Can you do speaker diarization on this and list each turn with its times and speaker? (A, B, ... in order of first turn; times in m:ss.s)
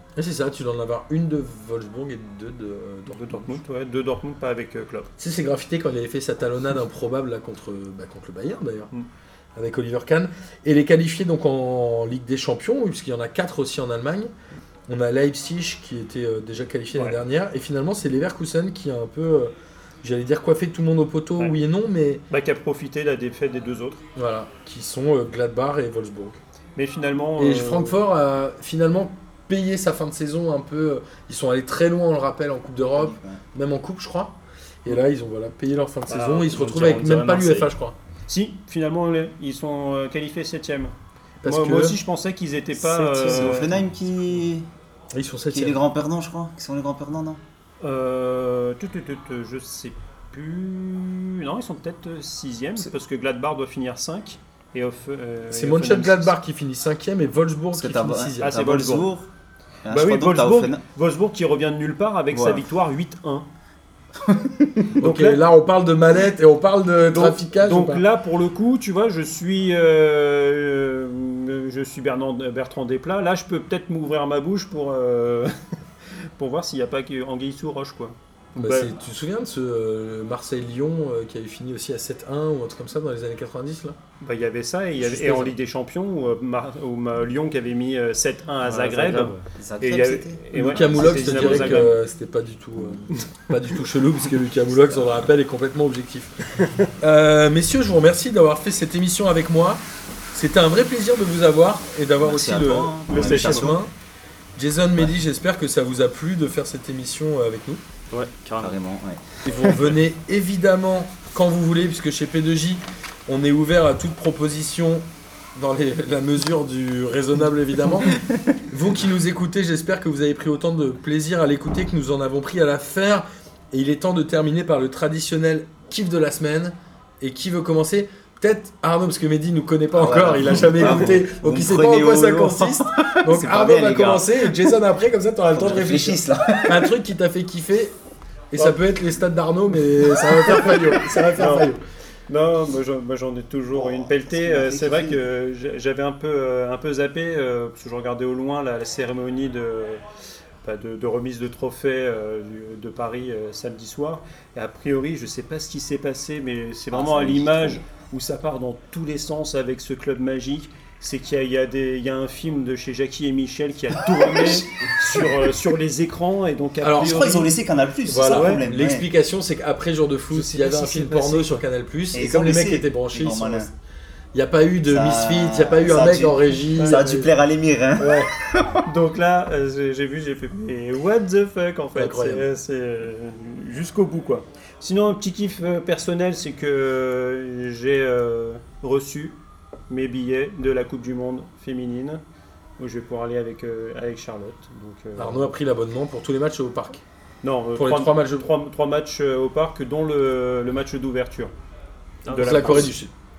0:00.2-0:03.6 A
0:03.1-0:05.1 B
0:05.2-0:08.9 A
0:09.6-0:14.3 A
0:14.9-0:22.2 A
0:22.3-0:24.0 B
0:24.2-0:26.4 A
0:26.8-0:28.0 B
0:27.4-0:38.0 A
0:33.0-0:33.4 C
0:36.1-0:36.6 B
0:36.5-0:37.7 D
0:38.3-0:43.8 B
0:41.4-0:42.0 A
0:42.9-0:44.6 C
0:42.9-0:43.6 A
0:45.1-0:45.8 A
0:45.5-0:47.4 C
0:47.8-0:56.3 B
0:55.5-0:58.6 A
0:57.7-0:59.3 C
0:58.4-0:59.1 B
0:59.8-1:00.8 C
0:59.9-1:03.5 B
1:02.3-1:02.6 C
1:04.2-1:04.9 C
1:05.0-1:05.4 B
1:05.0-1:08.0 A
1:07.1-1:18.9 B
1:18.6-1:24.0 A
1:24.2-1:32.0 B
1:25.0-1:25.6 A
1:28.6-1:29.4 D
1:29.6-1:31.9 C
1:30.5-1:36.3 A
1:34.8-1:35.2 C
1:37.0-1:39.8 A
1:40.3-1:43.9 A
1:42.2-1:43.8 C
1:43.1-1:43.7 B
1:44.6-1:47.8 A
1:48.1-1:48.8 D
1:48.6-1:49.2 C
1:49.4-2:17.9 A
2:09.9-2:14.7 C
2:15.5-2:16.9 C
2:18.5-2:21.8 A
2:20.4-2:21.7 B
2:22.3-2:30.0 B
2:23.7-2:25.2 C
2:30.6-2:47.5 B
2:36.9-2:37.8 C
2:44.2-2:44.7 C
2:46.8-2:47.4 A
2:46.9-2:49.1 C
2:48.1-2:53.7 A
2:48.2-2:48.6 B
2:50.3-2:51.6 B
2:52.1-2:53.7 C
2:54.3-2:57.3 A
2:54.8-2:58.8 C
2:56.8-2:57.1 B
2:58.0-2:58.3 A
2:58.8-3:09.4 B
3:01.9-3:02.5 A
3:09.9-3:12.2 B
3:12.8-3:15.5 B
3:15.2-3:17.0 A
3:17.4-3:21.5 B
3:17.8-3:18.5 A
3:22.2-3:22.9 D
3:22.2-3:23.0 B
3:22.3-3:23.1 A